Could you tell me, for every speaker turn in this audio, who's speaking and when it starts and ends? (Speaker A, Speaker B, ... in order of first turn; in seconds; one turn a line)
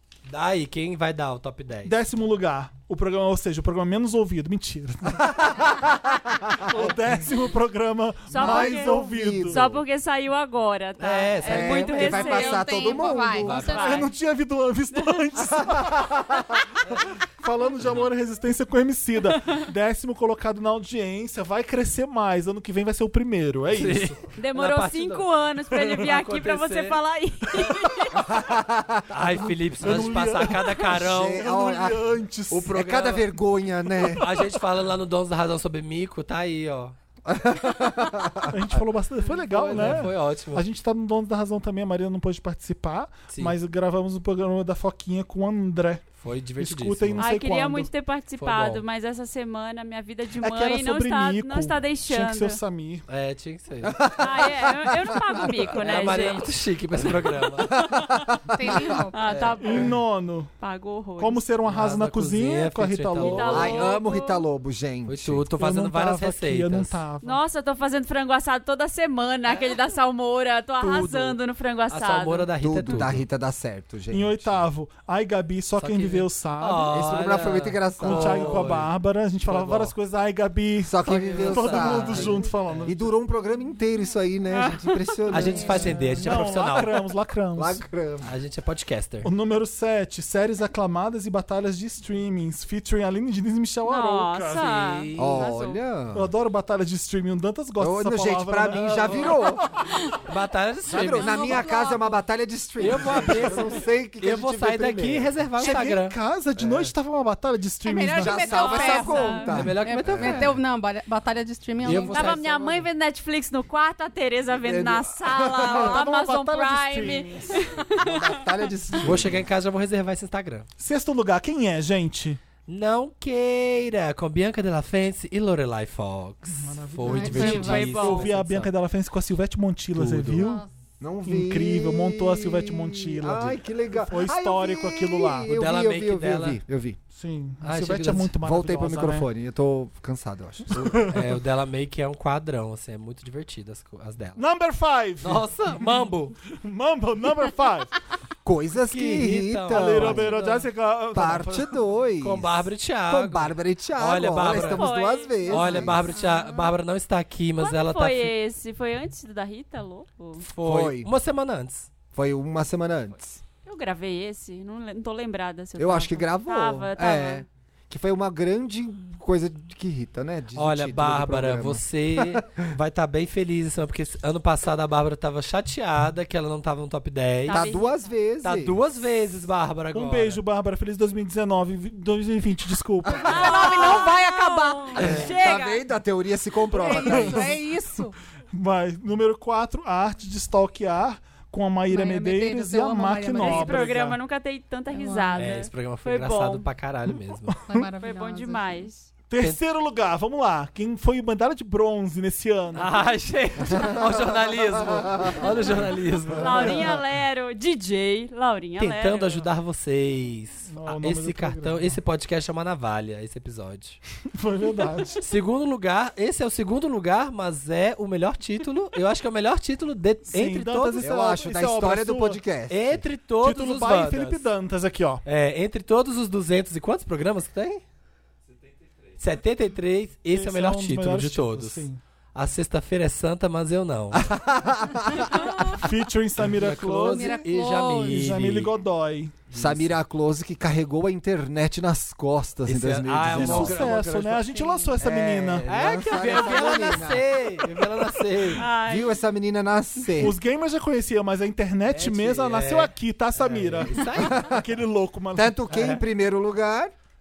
Speaker A: 0.3-1.9
Speaker B: 1.9-5.7
Speaker C: 5.2-6.9
Speaker B: 6.6-9.6
Speaker D: 8.3-12.9
Speaker C: 8.3-9.8
Speaker A: 11.0-12.2
Speaker C: 11.4-13.7
Speaker E: 11.9-14.1
Speaker A: 13.4-14.1
Speaker D: 13.5-14.1
Speaker B: 13.6-16.2
Speaker D: 14.9-15.2
Speaker C: 15.6-16.6
Speaker B: 17.4-24.2
Speaker A: 23.7-27.0
Speaker D: 24.3-28.3
Speaker C: 28.1-29.5
Speaker A: 29.1-31.4
Speaker B: 29.8-32.7
Speaker C: 30.9-34.2
Speaker A: 32.5-33.3
Speaker A: 34.0-37.0
Speaker B: 34.0-34.5
Speaker C: 37.3-38.6
Speaker B: 38.5-46.1
Speaker A: 39.2-40.6
Speaker A: 46.2-47.3
Speaker B: 46.6-47.9
Speaker D: 47.2-52.6
Speaker A: 48.4-48.8
Speaker B: 50.4-53.1
Speaker A: 53.1-54.2
Speaker C: 53.9-55.4
Speaker D: 54.2-56.5
Speaker A: 55.7-57.8
Speaker D: 57.6-58.3
Speaker C: 57.7-59.0
Speaker E: 58.5-59.6
Speaker D: 59.1-60.0
Speaker A: 59.3-59.9
Speaker B: 59.6-60.5
Speaker D: 60.6-61.5
Speaker B: 61.2-63.9
Speaker A: 61.6-63.9
Speaker D: 63.2-64.4
Speaker C: 63.5-65.5
Speaker A: 65.1-67.0
Speaker B: 65.6-67.4
Speaker D: 67.2-72.5
Speaker A: 70.8-71.4
Speaker A: 71.9-73.2
Speaker C: 72.6-74.6
Speaker B: 74.1-77.1
Speaker A: 75.8-78.9
Speaker C: 76.9-78.8
Speaker B: 78.0-83.1
Speaker A: 79.5-79.9
Speaker C: 80.8-86.0
Speaker A: 81.0-82.9
Speaker D: 84.5-85.2
Speaker A: 85.3-87.1
Speaker B: 85.4-87.8
Speaker E: 85.6-86.0
Speaker C: 87.6-88.3
Speaker A: 88.2-89.3
Speaker B: 89.2-95.1
Speaker D: 93.8-95.5
Speaker A: 95.1-95.5
Speaker C: 95.2-96.3
Speaker E: 95.3-95.8
Speaker B: 96.1-99.4
Speaker C: 97.8-99.6
Speaker A: 98.8-99.5
Speaker A: 100.2-101.6
Speaker C: 100.9-105.4
Speaker E: 101.2-102.2
Speaker A: 102.8-106.9
Speaker B: 105.6-108.7
Speaker E: 107.8-112.4
Speaker C: 108.2-110.5
Speaker D: 108.6-109.5
Speaker A: 109.5-110.6
Speaker A: 111.8-112.8
Speaker D: 112.1-118.5
Speaker C: 114.6-116.0
Speaker B: 115.6-117.6
Speaker C: 118.0-119.4
Speaker A: 119.0-120.7
Speaker B: 120.8-122.4
Speaker A: 122.7-128.7
Speaker B: 126.6-130.6
Speaker E: 127.0-127.8
Speaker D: 127.3-128.3
Speaker A: 129.9-130.5
Speaker E: 130.4-130.7
Speaker C: 131.0-137.0
Speaker B: 131.3-135.5
Speaker A: 135.5-136.6
Speaker B: 137.1-139.3
Speaker A: 137.6-138.3
Speaker C: 138.4-141.0
Speaker B: 140.7-141.3
Speaker A: 140.8-144.4
Speaker B: 144.4-147.9
Speaker A: 145.2-146.4
Speaker C: 148.4-150.4
Speaker A: 148.9-150.7
Speaker B: 149.7-151.8
Speaker C: 151.1-156.1
Speaker A: 152.2-154.9
Speaker D: 154.5-155.9
Speaker A: 155.5-158.3
Speaker E: 155.5-156.7
Speaker D: 157.6-160.5
Speaker A: 160.4-161.9
Speaker C: 160.6-161.1
Speaker C: 162.1-163.4
Speaker D: 163.6-167.4
Speaker C: 165.8-172.7
Speaker A: 170.6-177.7
Speaker D: 177.4-178.1
Speaker C: 177.5-178.8
Speaker A: 178.4-180.4
Speaker B: 179.9-183.9
Speaker E: 183.2-185.1
Speaker D: 183.2-185.8
Speaker C: 185.0-187.6
Speaker A: 185.0-185.3
Speaker E: 186.7-188.2
Speaker B: 186.8-187.6
Speaker B: 188.5-194.2
Speaker E: 191.9-193.9
Speaker D: 193.4-196.7
Speaker A: 193.7-193.9
Speaker E: 194.9-195.6
Speaker A: 195.4-197.6
Speaker B: 197.5-197.9
Speaker E: 197.7-198.9
Speaker D: 198.0-199.1
Speaker B: 199.3-203.0
Speaker A: 202.8-206.9
Speaker C: 203.7-205.4
Speaker D: 206.4-209.5
Speaker B: 206.6-206.9
Speaker A: 208.8-214.0
Speaker B: 210.7-212.0
Speaker B: 214.3-215.2
Speaker A: 215.2-221.1
Speaker B: 220.3-222.4
Speaker C: 221.0-223.1
Speaker A: 222.7-224.5
Speaker B: 223.4-225.2
Speaker A: 225.2-227.8
Speaker A: 229.2-234.3
Speaker B: 230.3-232.0
Speaker C: 234.1-235.5
Speaker B: 235.7-237.4
Speaker A: 236.4-238.7
Speaker E: 237.1-238.2
Speaker B: 238.0-239.4
Speaker A: 239.5-239.9
Speaker C: 239.5-244.1
Speaker A: 242.7-244.4
Speaker B: 243.3-245.7
Speaker E: 244.5-245.0
Speaker C: 245.0-247.8
Speaker A: 245.7-248.7
Speaker D: 248.6-249.2
Speaker C: 248.8-250.4
Speaker B: 250.2-255.6
Speaker A: 251.9-254.5
Speaker C: 254.2-254.6
Speaker C: 255.3-256.9
Speaker A: 255.7-256.0